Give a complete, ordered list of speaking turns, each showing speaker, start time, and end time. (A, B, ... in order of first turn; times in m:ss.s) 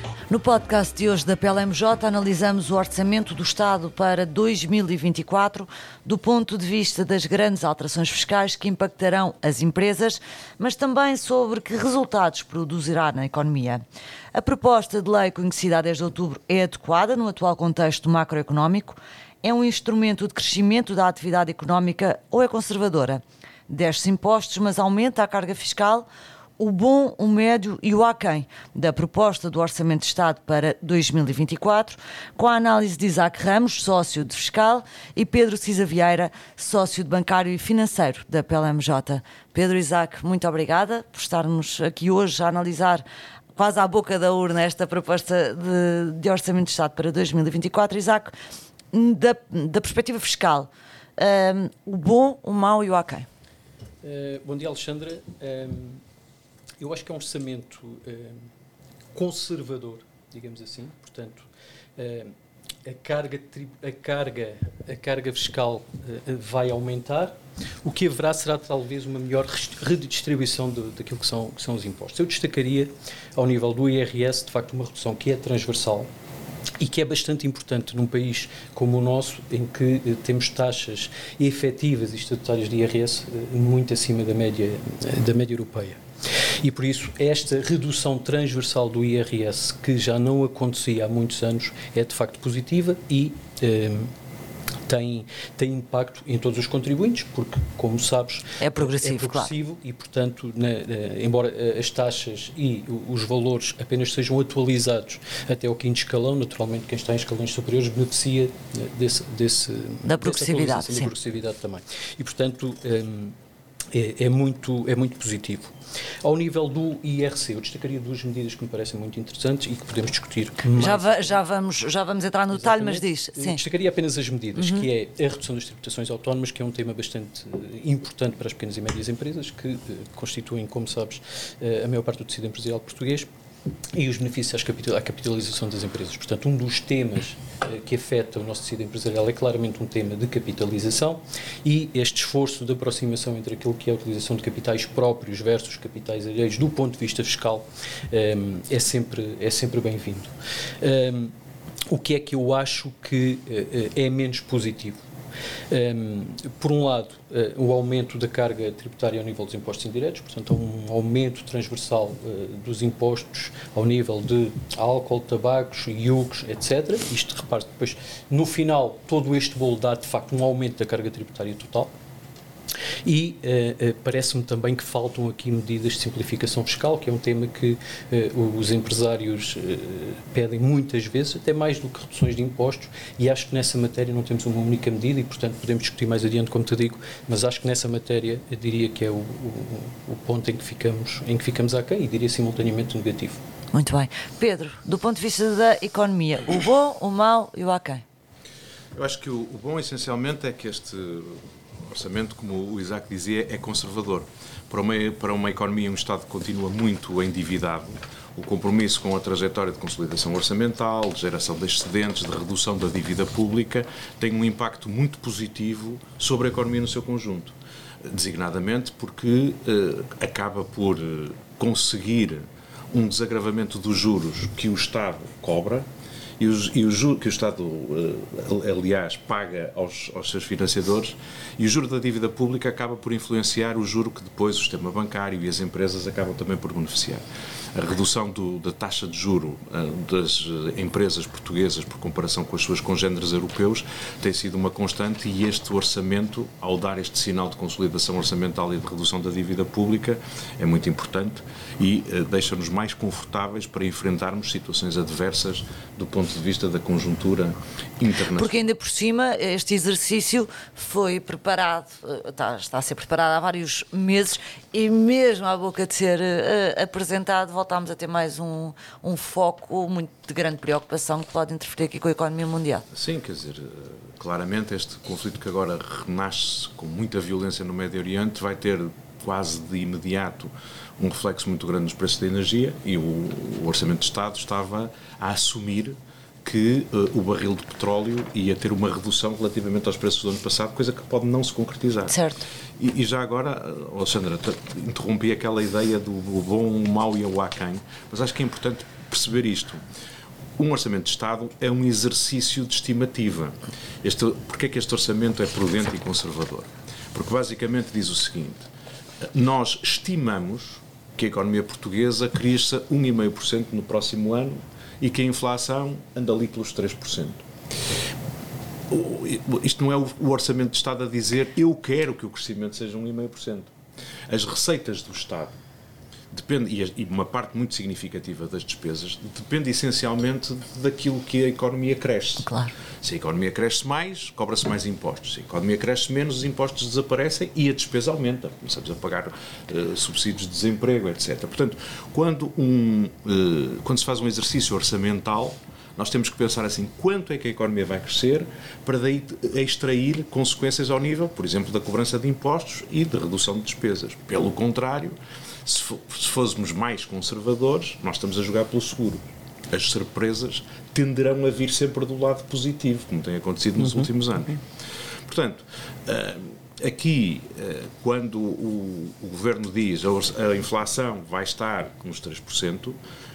0:00.3-0:26.1 A
0:26.6-0:48.3 A
0:48.9-0:53.3 A
0:54.0-0:56.0 B
0:56.8-0:58.5 B
0:59.1-1:16.1 B
1:16.8-1:26.0 B
1:26.6-1:34.1 B
1:34.8-1:53.4 B
1:38.6-1:39.5 A
1:50.0-1:51.1 A
1:53.9-2:01.4 B
2:00.7-2:03.6 A
2:02.5-2:13.3 B
2:04.6-2:04.8 A
2:13.9-2:31.3 B
2:31.9-2:35.0 B
2:35.7-2:51.9 B
2:53.0-3:13.4 B
3:13.7-3:18.0 A
3:18.9-3:45.9 C
3:46.4-4:18.5 C
4:18.3-4:32.8 A
4:32.9-4:52.2 C
4:52.1-4:52.4 A
4:52.8-4:59.8 C
5:00.6-5:08.7 C
5:09.2-5:17.4 C
5:18.9-5:23.7 C
5:24.3-5:25.6 C
5:26.3-6:04.6 C
5:32.5-5:32.7 A
6:05.2-6:13.0 C